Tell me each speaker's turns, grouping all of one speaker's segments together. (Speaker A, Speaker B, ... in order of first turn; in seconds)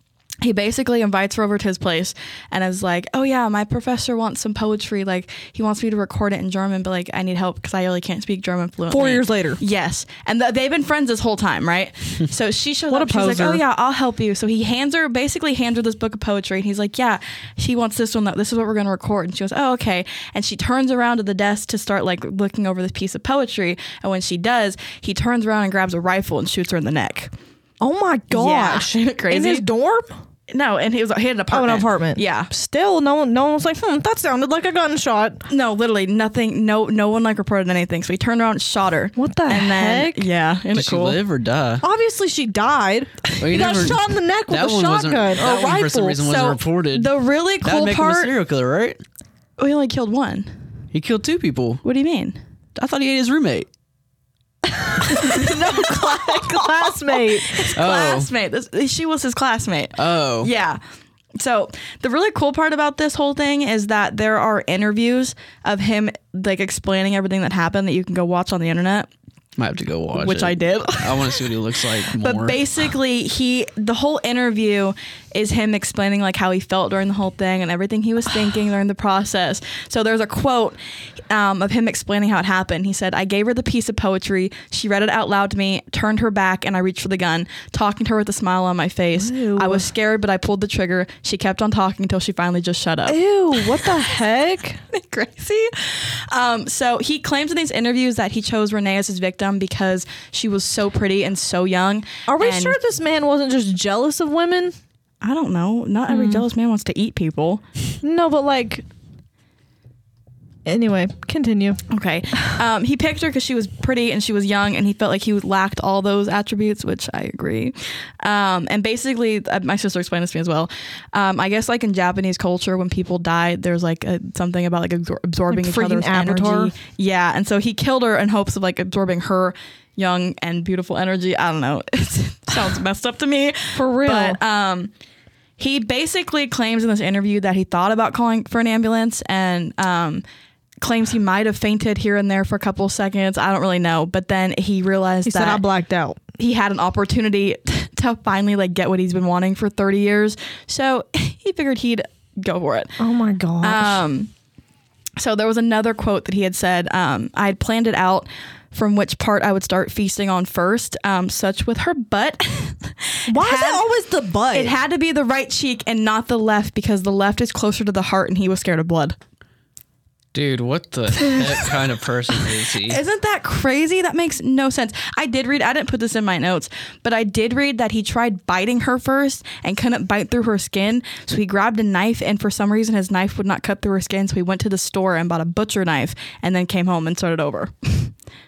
Speaker A: 0.4-27.3, 28.3-29.7, 30.5-32.5, 35.5-41.2, 45.4-48.3, 49.6-50.5, 51.8-52.4, 55.0-60.8, 61.4-69.1, 70.2-71.5, 72.1-80.8, 81.3-93.2, 94.9-102.8, 105.2-107.6, 111.9-134.9, 135.6-140.2, 140.8-145.6, 146.4-153.0, 153.6-154.3, 155.2-163.8, 164.5-169.2, 171.3-171.7, 172.8-188.1
Speaker B: 8.9-9.6, 12.9-13.6, 27.8-30.1, 31.5-35.4, 39.2-40.3, 41.8-46.2, 54.8-57.7, 89.2-89.9, 93.1-94.8, 102.3-104.8, 106.1-106.4, 108.0-108.8, 110.7-111.8, 125.5-126.7, 133.7-134.4, 145.2-146.2, 153.0-154.0, 163.3-164.8
Speaker C: 40.7-41.8, 43.4-47.1, 47.6-49.0, 50.9-51.8, 52.8-53.7, 57.8-58.3, 60.0-60.5, 69.6-72.6, 170.3-173.0